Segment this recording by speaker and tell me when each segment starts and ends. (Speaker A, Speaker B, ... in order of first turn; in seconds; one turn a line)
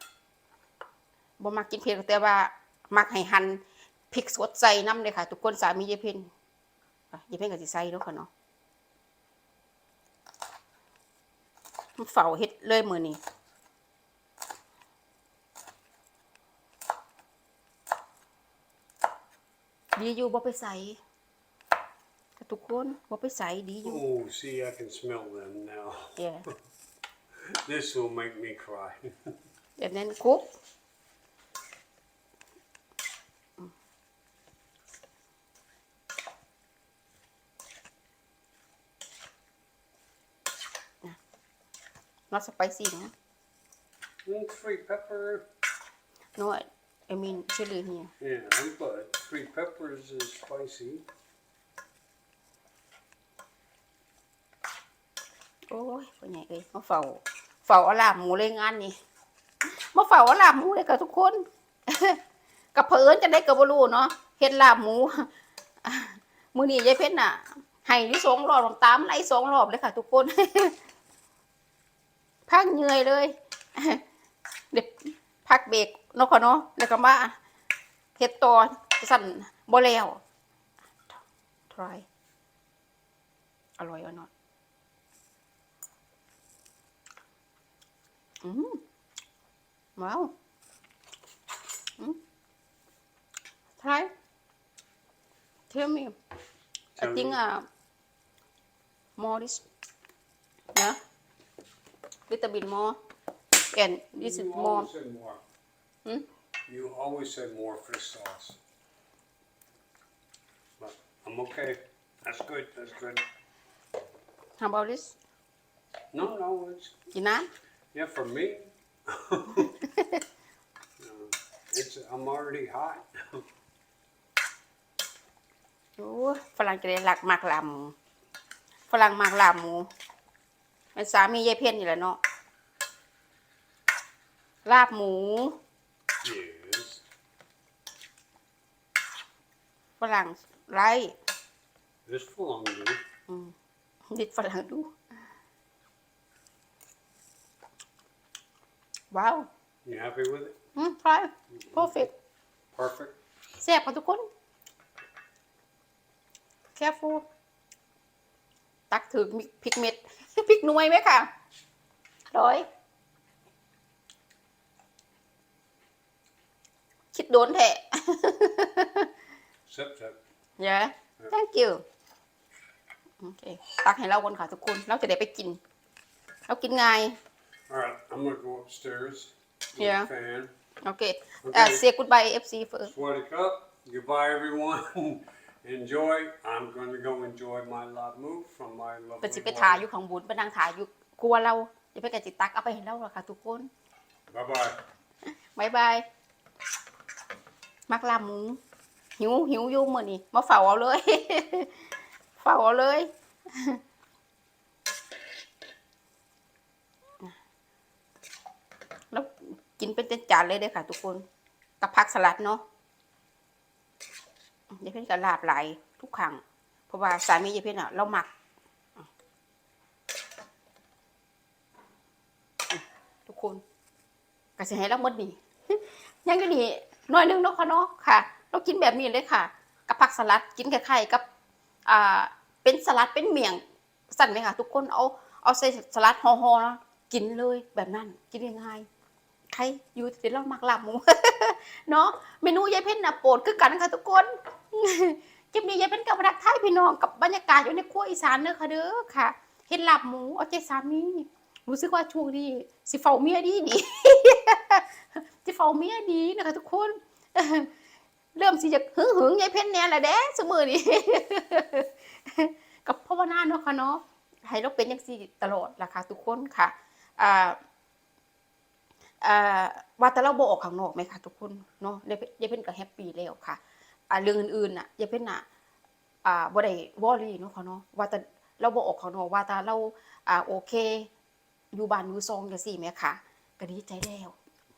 Speaker A: 1.4-6.3
Speaker A: 7.1-8.3
Speaker A: 12.0-13.2
Speaker A: 20.0-21.0
Speaker A: 22.4-24.0
Speaker B: 23.8-26.2
Speaker A: 26.2-26.4
Speaker B: 27.6-29.1
Speaker A: 29.8-30.5
Speaker A: 42.3-43.1
Speaker B: 44.2-45.5
Speaker A: 46.4-48.1
Speaker B: 48.2-51.0
Speaker A: 55.7-58.9
Speaker A: 59.7-62.2
Speaker A: 62.7-65.3
Speaker A: 65.8-70.8
Speaker A: 72.5-74.0
Speaker A: 74.7-77.4
Speaker A: 78.2-80.2
Speaker A: 81.7-82.0
Speaker A: 83.8-84.3
Speaker A: 88.4-88.8
Speaker A: 90.0-90.3
Speaker A: 93.8-94.1
Speaker A: 95.7-96.2
Speaker B: 97.0-97.4
Speaker A: 97.0-97.7
Speaker A: 99.2-99.7
Speaker A: 102.3-103.0
Speaker A: 103.7-104.9
Speaker B: 104.2-105.4
Speaker B: 106.7-108.6
Speaker B: 110.8-113.2
Speaker A: 114.6-115.2
Speaker B: 116.1-116.9
Speaker A: 117.1-117.5
Speaker B: 117.9-119.7
Speaker A: 119.9-120.2
Speaker B: 121.0-123.4
Speaker A: 126.0-127.9
Speaker A: 128.9-129.9
Speaker A: 130.9-132.2
Speaker A: 134.6-135.6
Speaker B: 136.2-137.0
Speaker A: 140.0-141.2
Speaker B: 142.1-143.0
Speaker A: 143.3-143.5
Speaker A: 144.1-144.9
Speaker A: 149.1-149.5
Speaker B: 149.8-150.6
Speaker A: 150.8-152.1
Speaker B: 151.6-152.1
Speaker B: 152.7-153.2
Speaker A: 153.6-154.2
Speaker A: 156.8-157.2
Speaker A: 158.9-161.3
Speaker A: 162.3-162.7
Speaker A: 167.1-169.1
Speaker B: 169.7-170.2
Speaker A: 170.6-171.8
Speaker A: 173.2-175.6
Speaker A: 176.5-177.2
Speaker B: 177.7-180.5
Speaker A: 179.8-180.1
Speaker A: 180.8-182.9
Speaker B: 181.4-181.8
Speaker B: 182.9-189.8
Speaker A: 189.2-193.7
Speaker B: 194.3-194.8
Speaker A: 195.5-196.0
Speaker A: 197.9-198.6
Speaker A: 199.2-201.7
Speaker A: 202.4-203.8
Speaker A: 209.1-211.2
Speaker A: 211.8-212.6
Speaker A: 214.7-218.3
Speaker A: 222.7-223.6
Speaker A: 224.6-231.2
Speaker A: 231.9-238.9
Speaker A: 239.5-257.7
Speaker A: 258.4-267.6
Speaker A: 269.2-275.4
Speaker A: 276.2-281.1
Speaker A: 281.7-284.3